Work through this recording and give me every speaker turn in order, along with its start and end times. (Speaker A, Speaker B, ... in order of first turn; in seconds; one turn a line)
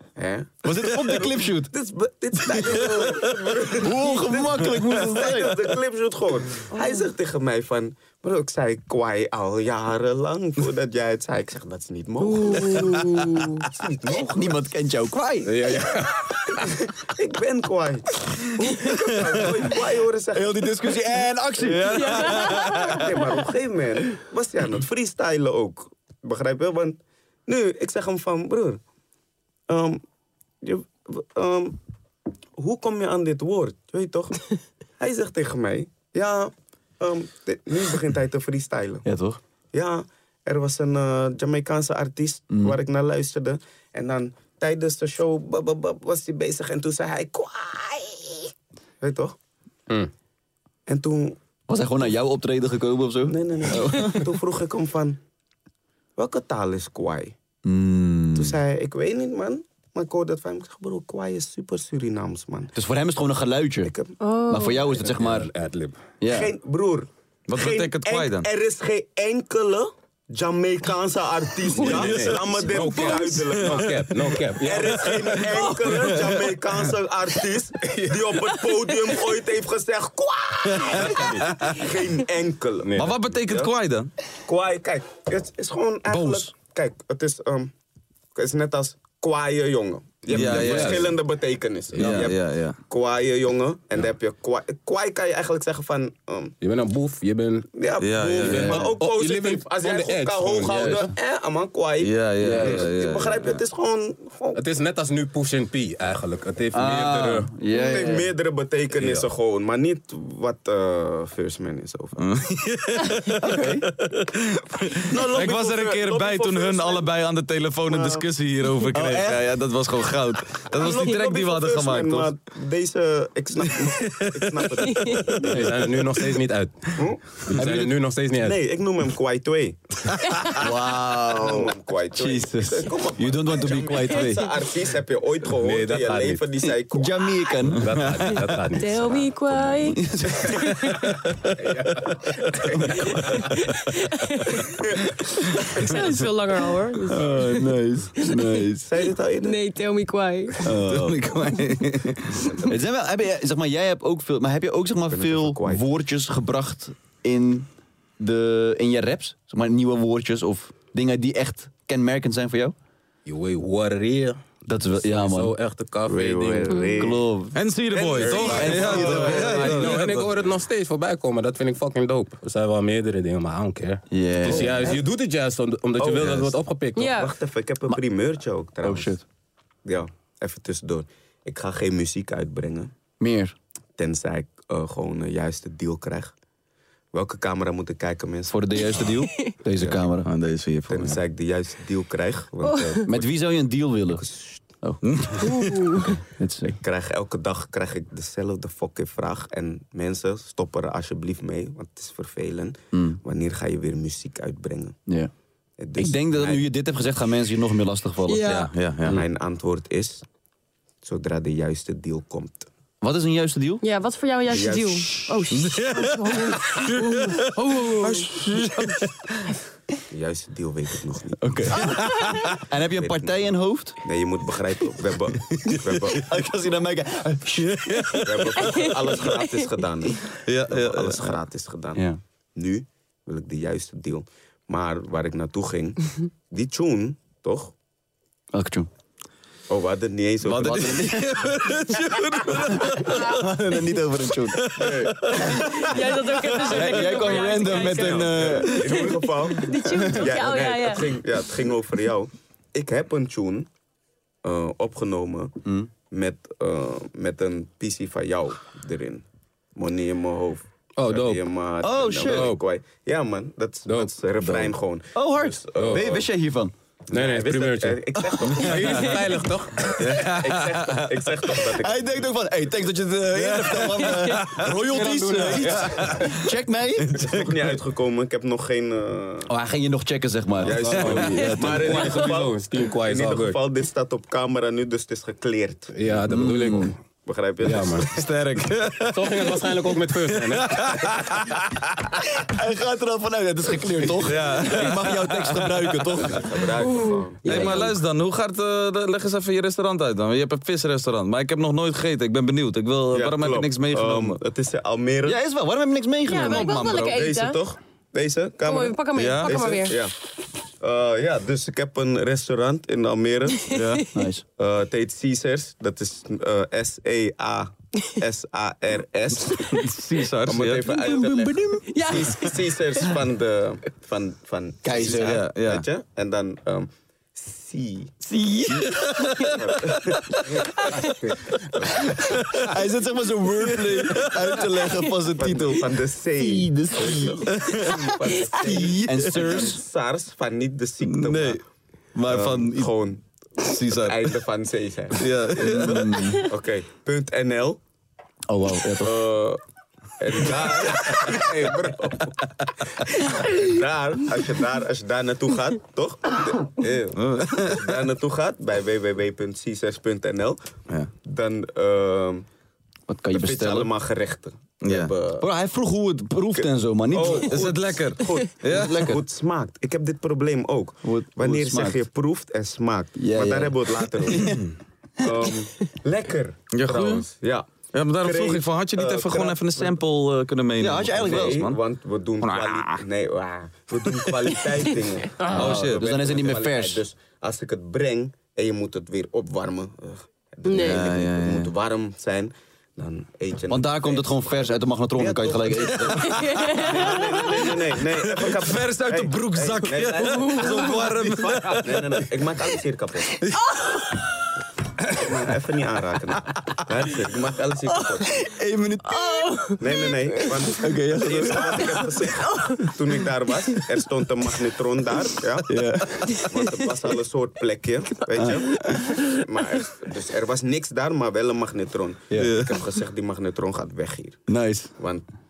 Speaker A: 0.2-14.7
Speaker B: 0.6-1.7
Speaker B: 2.5-5.7
Speaker C: 2.6-3.1
Speaker D: 12.2-13.7
Speaker B: 14.3-15.5
Speaker E: 15.4-16.3
Speaker A: 16.5-20.7
Speaker C: 19.0-19.3
Speaker B: 20.3-22.3
Speaker C: 21.6-23.0
Speaker D: 22.0-23.1
Speaker A: 22.8-28.8
Speaker A: 29.7-30.0
Speaker A: 30.6-31.8
Speaker A: 32.6-39.0
Speaker B: 39.0-39.4
Speaker A: 39.7-49.4
Speaker B: 42.5-42.8
Speaker A: 50.9-51.4
Speaker B: 51.7-54.3
Speaker A: 53.3-55.2
Speaker A: 56.2-57.4
Speaker B: 57.6-58.6
Speaker A: 58.3-62.7
Speaker B: 62.7-63.9
Speaker A: 63.8-64.1
Speaker D: 64.2-65.0
Speaker B: 64.5-65.5
Speaker E: 65.0-66.1
Speaker B: 66.2-66.5
Speaker A: 66.2-83.7
Speaker C: 67.5-68.5
Speaker D: 71.8-73.4
Speaker C: 71.8-72.3
Speaker E: 71.8-75.6
Speaker C: 74.8-76.9
Speaker C: 80.7-81.8
Speaker E: 81.0-81.5
Speaker E: 82.9-83.1
Speaker C: 83.0-84.1
Speaker A: 84.5-87.7
Speaker E: 86.1-86.5
Speaker A: 88.3-96.6
Speaker E: 90.3-91.1
Speaker C: 90.3-91.1
Speaker C: 92.0-92.8
Speaker E: 96.6-97.7
Speaker A: 97.7-104.6
Speaker C: 98.0-98.9
Speaker B: 98.4-99.0
Speaker E: 98.4-101.1
Speaker B: 100.7-101.1
Speaker C: 102.0-103.6
Speaker B: 102.4-102.9
Speaker E: 104.5-107.5
Speaker B: 106.7-108.3
Speaker A: 107.7-112.2
Speaker D: 107.8-108.1
Speaker B: 109.0-109.2
Speaker C: 112.2-122.3
Speaker B: 113.4-113.9
Speaker A: 115.1-117.1
Speaker A: 117.9-118.3
Speaker B: 118.9-119.4
Speaker A: 120.7-125.8
Speaker C: 123.6-125.9
Speaker D: 124.8-125.4
Speaker E: 125.4-126.9
Speaker A: 126.9-127.4
Speaker E: 127.5-128.6
Speaker B: 127.5-128.0
Speaker A: 128.4-129.8
Speaker C: 130.2-130.6
Speaker A: 130.5-137.6
Speaker B: 130.6-134.6
Speaker E: 135.6-136.4
Speaker B: 136.9-138.0
Speaker E: 137.8-139.2
Speaker C: 138.0-138.6
Speaker D: 138.7-141.2
Speaker B: 139.8-140.7
Speaker A: 141.6-143.5
Speaker B: 142.8-143.1
Speaker E: 143.2-143.4
Speaker D: 143.4-144.8
Speaker D: 145.6-148.6
Speaker B: 147.1-148.9
Speaker A: 148.8-149.6
Speaker D: 149.4-150.7
Speaker B: 150.6-162.8
Speaker C: 150.8-152.2
Speaker A: 155.1-155.8
Speaker E: 163.3-164.4
Speaker B: 164.7-165.6
Speaker E: 165.1-166.8
Speaker A: 166.1-167.3
Speaker B: 167.0-167.6
Speaker C: 167.5-170.3
Speaker A: 167.9-170.1
Speaker B: 168.2-169.9
Speaker E: 168.7-177.1
Speaker B: 174.1-175.0
Speaker A: 174.4-175.0
Speaker A: 176.0-179.2
Speaker D: 177.0-177.3
Speaker B: 178.8-179.2
Speaker A: 179.8-182.9
Speaker B: 183.2-183.6
Speaker A: 184.0-186.3
Speaker A: 187.1-189.1
Speaker B: 188.5-190.3
Speaker A: 189.8-190.1
Speaker C: 190.2-191.2
Speaker A: 190.9-193.3
Speaker B: 193.1-194.3
Speaker A: 194.2-194.7
Speaker B: 194.8-196.8
Speaker C: 195.0-195.8
Speaker D: 195.4-196.1
Speaker A: 196.8-205.0
Speaker B: 202.9-203.2
Speaker A: 205.8-206.6
Speaker B: 206.0-208.5
Speaker D: 208.3-208.7
Speaker C: 208.5-209.2
Speaker A: 209.1-210.2
Speaker A: 211.0-212.7
Speaker B: 213.0-213.8
Speaker D: 213.8-217.4
Speaker A: 214.5-215.4
Speaker C: 215.5-219.1
Speaker B: 218.4-218.9
Speaker A: 220.1-221.4
Speaker B: 221.4-224.0
Speaker D: 222.1-222.4
Speaker A: 222.9-226.3
Speaker B: 225.5-228.2
Speaker C: 227.6-228.9
Speaker A: 228.2-237.7
Speaker C: 230.5-231.4
Speaker B: 231.9-232.2
Speaker B: 238.5-238.9
Speaker A: 239.7-241.1
Speaker C: 240.4-243.6
Speaker B: 240.5-241.5
Speaker B: 242.7-245.6
Speaker C: 244.5-248.1
Speaker A: 244.8-245.1
Speaker D: 245.5-251.1
Speaker B: 246.6-249.0
Speaker A: 247.7-253.7
Speaker A: 254.4-255.6
Speaker B: 255.7-255.9
Speaker A: 256.1-259.2
Speaker A: 259.8-266.3
Speaker E: 261.0-261.4
Speaker B: 261.8-262.6
Speaker E: 262.2-262.6
Speaker E: 263.9-264.1
Speaker B: 265.1-266.7
Speaker E: 265.8-266.1
Speaker A: 267.1-272.3
Speaker E: 267.1-270.0
Speaker C: 269.9-271.2
Speaker B: 271.7-277.2
Speaker C: 273.3-274.7
Speaker E: 274.7-276.3
Speaker A: 277.1-279.5
Speaker C: 277.1-277.5
Speaker B: 279.5-282.1
Speaker E: 280.6-283.6
Speaker A: 280.6-285.9
Speaker D: 281.3-282.4
Speaker E: 285.9-287.0
Speaker B: 286.3-286.9
Speaker A: 287.2-288.2
Speaker E: 287.6-288.1
Speaker C: 288.1-292.2
Speaker E: 289.1-291.0
Speaker B: 292.4-296.7
Speaker C: 294.1-296.4
Speaker A: 296.2-297.4
Speaker D: 296.8-297.9
Speaker C: 297.4-304.4
Speaker B: 297.5-297.8
Speaker A: 303.1-305.4
Speaker B: 305.2-307.0
Speaker D: 306.3-307.6
Speaker A: 306.5-310.3
Speaker C: 306.5-307.1
Speaker D: 308.6-310.0
Speaker C: 309.2-309.6
Speaker A: 310.8-313.7
Speaker D: 313.7-314.0
Speaker C: 313.7-314.1
Speaker B: 314.1-314.4
Speaker A: 314.6-319.9
Speaker C: 319.7-320.9
Speaker A: 320.4-328.1
Speaker B: 320.9-322.4
Speaker D: 321.9-322.6
Speaker B: 324.8-325.4
Speaker C: 324.9-325.9
Speaker B: 328.2-329.1
Speaker C: 328.7-330.7
Speaker A: 329.6-331.1
Speaker C: 331.5-332.8
Speaker A: 331.6-332.1
Speaker B: 331.9-337.5
Speaker C: 333.6-334.8
Speaker A: 335.4-341.6
Speaker C: 337.5-338.1
Speaker B: 338.5-339.8
Speaker C: 339.1-339.6
Speaker C: 341.0-341.6
Speaker C: 342.1-342.9
Speaker A: 342.3-343.2
Speaker C: 343.6-344.4
Speaker A: 343.9-347.8
Speaker C: 345.1-346.2
Speaker B: 345.7-346.5
Speaker B: 348.5-349.3
Speaker A: 349.0-349.6
Speaker A: 350.2-360.6
Speaker C: 357.2-358.0
Speaker A: 361.2-362.4
Speaker B: 363.1-363.9
Speaker A: 363.3-365.5
Speaker C: 364.8-365.1
Speaker B: 365.4-367.6
Speaker A: 366.6-374.6
Speaker C: 367.3-369.2
Speaker B: 368.6-369.2
Speaker B: 371.0-372.0
Speaker B: 373.2-374.7
Speaker A: 375.2-377.7
Speaker B: 375.2-375.5
Speaker C: 376.7-377.2
Speaker C: 377.9-381.8
Speaker A: 378.2-380.0
Speaker B: 380.8-381.7
Speaker A: 381.2-403.4
Speaker C: 382.4-383.0
Speaker C: 385.5-386.1
Speaker B: 385.5-387.0
Speaker D: 390.6-391.1
Speaker C: 390.8-391.7
Speaker B: 393.7-396.4
Speaker C: 395.8-402.3
Speaker D: 396.3-397.2
Speaker D: 400.3-400.9
Speaker A: 405.1-408.4
Speaker B: 407.9-409.8
Speaker D: 409.1-410.0
Speaker A: 409.8-415.8
Speaker B: 410.4-412.3
Speaker D: 412.5-412.9
Speaker B: 415.7-416.4
Speaker D: 416.3-416.6
Speaker A: 416.4-424.4
Speaker B: 418.3-419.2
Speaker B: 422.3-422.6
Speaker C: 422.4-422.8
Speaker B: 424.5-424.9
Speaker A: 425.0-425.2